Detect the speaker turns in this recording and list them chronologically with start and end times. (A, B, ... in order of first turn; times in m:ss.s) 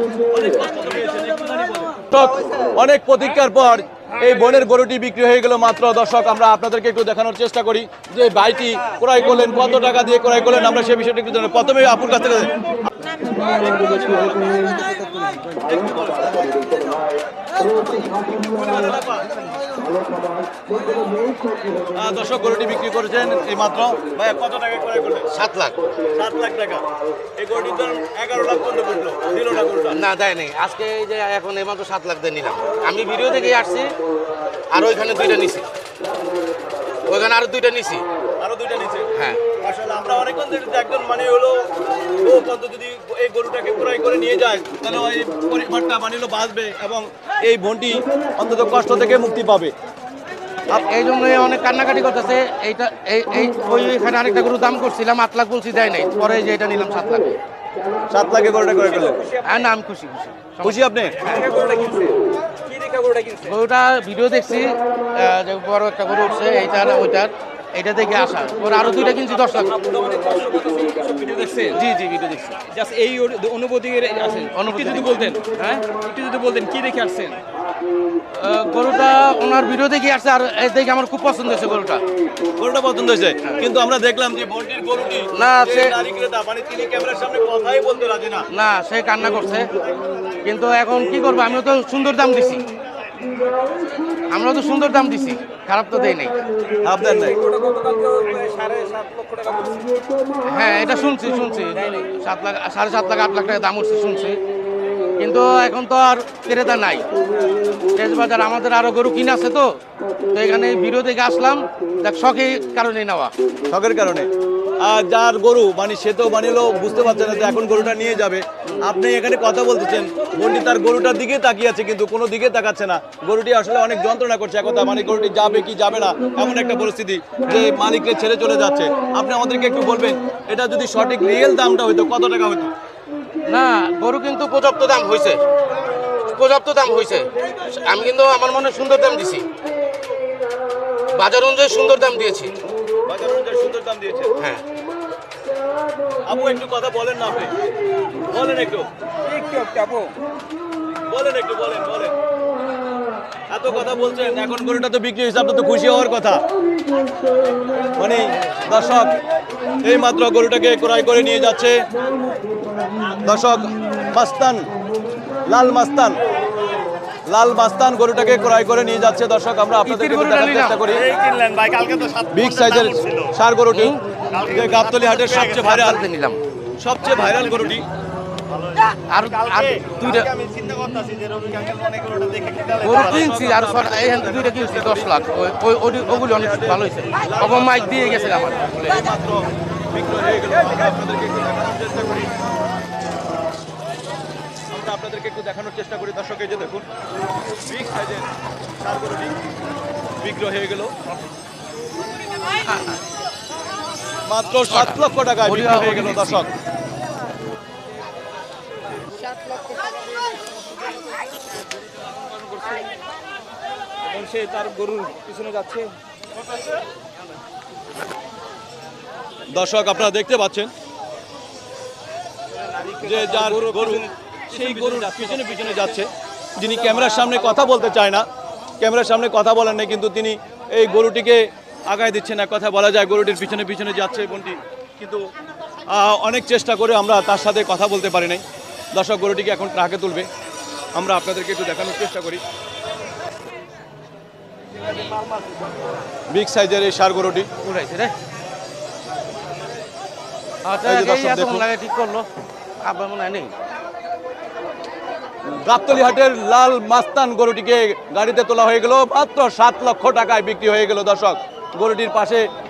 0:00.2-0:12.5 A
0:13.2-0:14.8 A
0:15.5-0:16.8 A
0:17.7-0:19.3 A
0:21.8-0:25.3 A
0:25.3-0:25.8 B
0:26.0-0:26.8 A
0:27.4-0:30.0 A
0:29.9-0:33.9 B
0:34.7-0:35.6 B
0:37.1-0:38.0 B
0:38.4-0:49.7 A
0:39.1-0:39.4 B
0:50.7-0:57.3 B
0:58.1-0:59.2 A
0:58.7-0:59.7 C
0:59.4-1:00.8 B
1:00.6-1:01.2 A
1:01.2-1:03.5 C
1:03.4-1:09.8 B
1:09.1-1:11.8 C
1:11.8-1:12.6 B
1:12.6-1:17.4 C
1:14.5-1:15.8 B
1:18.3-1:22.0 B
1:22.6-1:28.4 A
1:25.3-1:25.9 B
1:28.5-1:29.7 B
1:30.4-1:32.6 B
1:34.3-1:36.4 B
1:36.8-1:37.4 A
1:37.0-1:40.0 C
1:40.4-1:44.4 B
1:41.7-1:42.1 C
1:45.2-1:47.1 B
1:47.8-1:49.8 B
1:50.3-1:53.3 B
1:53.7-1:54.3 A
1:54.8-2:12.7 A
2:13.5-2:15.4 B
2:16.2-2:19.4 B
2:21.1-2:22.5 B
2:23.0-2:24.3 A
2:24.4-2:24.6 B
2:26.2-2:27.5 A
2:28.2-2:28.9 A
2:29.2-2:30.1 C
2:31.0-2:32.2 A
2:33.5-2:36.4 A
2:37.9-2:39.2 A
2:39.8-2:41.8 A
2:43.1-2:44.7 A
2:45.4-2:46.2 A
2:47.3-2:51.1 A
2:49.8-2:50.9 B
2:50.9-2:53.3 D
2:52.3-2:56.0 A
2:53.7-2:54.0 B
2:54.3-2:55.9 D
2:55.6-2:56.4 B
2:56.8-2:57.9 A
2:58.5-3:03.1 D
2:59.1-3:00.3 B
3:02.8-3:09.0 B
3:02.9-3:05.2 A
3:06.0-3:12.3 A
3:14.7-3:16.8 A
3:17.6-3:19.4 A
3:20.2-3:20.9 A
3:22.7-3:23.0 B
3:24.2-3:26.5 A
3:24.7-3:26.4 B
3:32.4-3:32.9 C
3:34.0-3:35.9 C
3:39.5-3:40.7 A
3:42.6-3:45.8 C
3:43.0-3:48.2 A
3:46.9-3:47.4 C
3:48.8-3:55.2 A
3:55.9-4:00.3 A
4:00.9-4:02.4 A
4:06.3-4:07.5 A
4:07.6-4:08.1 B
4:10.6-4:12.2 B
4:10.8-4:11.7 A
4:12.8-4:13.5 B
4:15.5-4:22.4 A